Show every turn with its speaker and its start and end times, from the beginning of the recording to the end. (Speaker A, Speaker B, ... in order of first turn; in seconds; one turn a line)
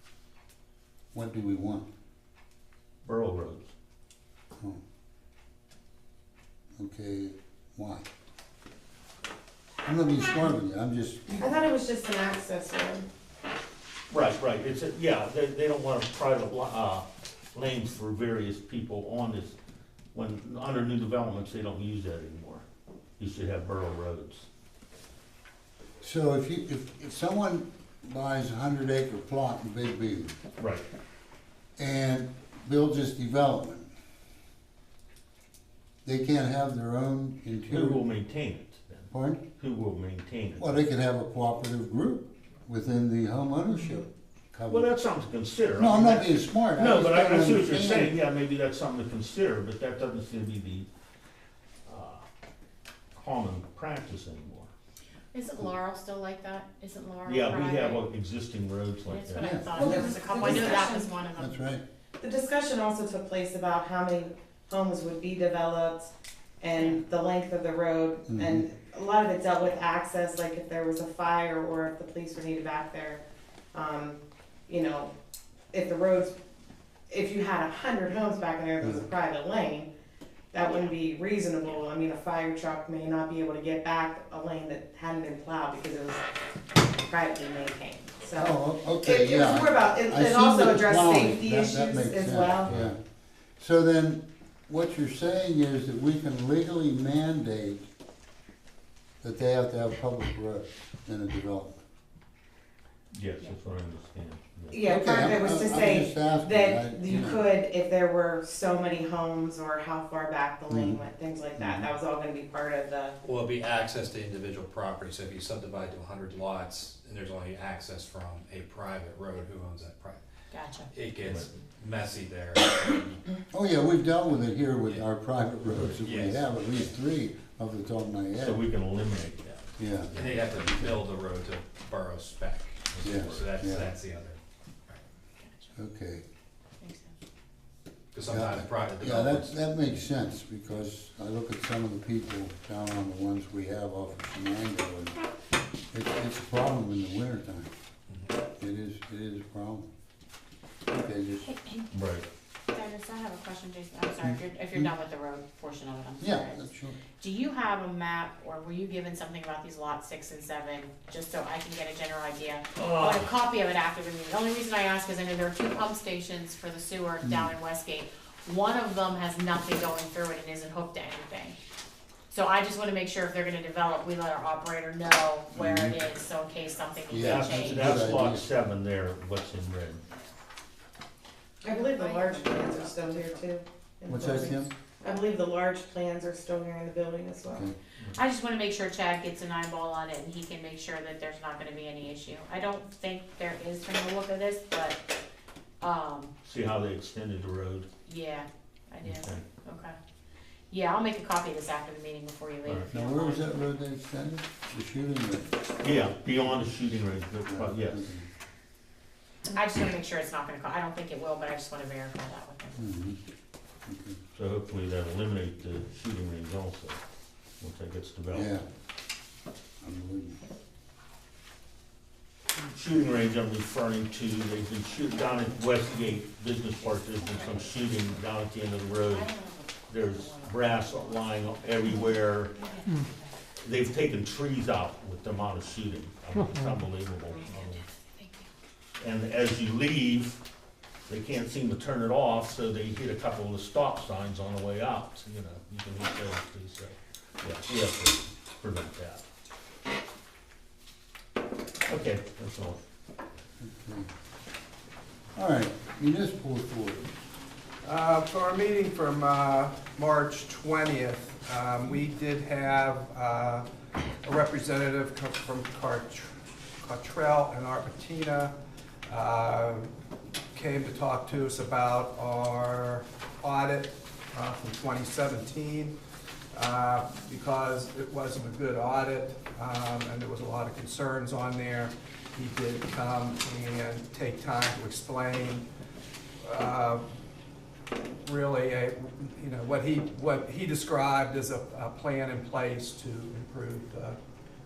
Speaker A: 1.1-1.9
Speaker B: 3.0-3.7
Speaker A: 6.8-8.1
Speaker A: 9.8-11.5
Speaker C: 11.3-13.1
Speaker B: 14.1-19.6
Speaker B: 20.1-22.6
Speaker B: 23.2-24.5
Speaker A: 26.0-30.4
Speaker B: 30.6-30.8
Speaker A: 31.8-33.9
Speaker A: 36.0-38.1
Speaker B: 37.7-40.8
Speaker A: 39.1-39.4
Speaker A: 40.6-44.9
Speaker B: 44.7-50.9
Speaker A: 45.8-48.1
Speaker B: 51.9-52.2
Speaker B: 53.1-54.7
Speaker D: 55.3-58.0
Speaker B: 57.2-59.5
Speaker D: 59.1-61.6
Speaker A: 59.4-61.8
Speaker C: 59.7-61.1
Speaker C: 62.2-73.2
Speaker D: 66.7-67.0
Speaker A: 68.3-68.7
Speaker C: 73.7-75.1
Speaker C: 75.7-76.3
Speaker C: 77.1-79.9
Speaker C: 80.5-86.2
Speaker D: 80.6-81.0
Speaker C: 86.7-92.7
Speaker A: 88.4-93.0
Speaker A: 93.6-97.9
Speaker A: 99.2-101.8
Speaker B: 103.1-104.8
Speaker C: 104.7-113.2
Speaker A: 104.8-107.4
Speaker A: 110.7-111.0
Speaker A: 111.6-111.9
Speaker E: 113.2-120.2
Speaker D: 120.5-120.9
Speaker E: 120.9-123.3
Speaker A: 123.5-128.6
Speaker E: 126.0-126.9
Speaker B: 128.4-130.4
Speaker A: 129.8-131.0
Speaker E: 130.1-135.0
Speaker B: 132.9-133.5
Speaker A: 133.0-133.9
Speaker D: 135.4-135.7
Speaker A: 135.8-136.2
Speaker D: 136.8-137.2
Speaker E: 138.1-139.9
Speaker A: 138.2-145.2
Speaker A: 145.9-147.7
Speaker E: 148.1-148.3
Speaker A: 148.6-149.9
Speaker A: 150.9-151.5
Speaker D: 151.5-151.9
Speaker B: 151.9-152.2
Speaker D: 152.7-156.7
Speaker A: 154.2-154.9
Speaker A: 156.2-157.0
Speaker D: 157.2-171.6
Speaker B: 162.8-163.3
Speaker A: 167.2-167.5
Speaker D: 172.3-178.0
Speaker A: 175.6-176.0
Speaker A: 177.1-178.4
Speaker B: 177.1-180.0
Speaker C: 181.6-187.7
Speaker D: 181.6-183.5
Speaker A: 184.1-184.7
Speaker D: 188.2-195.0
Speaker D: 195.8-196.3
Speaker B: 196.4-197.9
Speaker D: 198.1-200.0
Speaker B: 199.0-199.4
Speaker D: 200.7-203.5
Speaker A: 202.9-205.5
Speaker B: 205.8-208.1
Speaker A: 207.5-208.3
Speaker D: 209.5-212.8
Speaker A: 212.8-213.2
Speaker A: 213.9-214.2
Speaker B: 214.3-217.0
Speaker B: 217.6-218.5
Speaker A: 218.3-218.6
Speaker A: 219.8-220.4
Speaker B: 222.7-229.3
Speaker D: 227.1-227.8
Speaker D: 229.0-231.5
Speaker B: 229.9-232.5
Speaker D: 232.5-233.3
Speaker B: 233.6-237.8
Speaker D: 237.3-238.5
Speaker B: 239.0-240.4
Speaker B: 241.1-249.2
Speaker B: 251.9-252.8
Speaker A: 253.6-254.1
Speaker A: 255.3-257.2
Speaker F: 257.8-263.7
Speaker F: 264.2-268.5
Speaker F: 269.1-269.9
Speaker F: 270.5-275.9
Speaker F: 276.5-285.6
Speaker F: 286.4-287.0
Speaker F: 288.2-294.2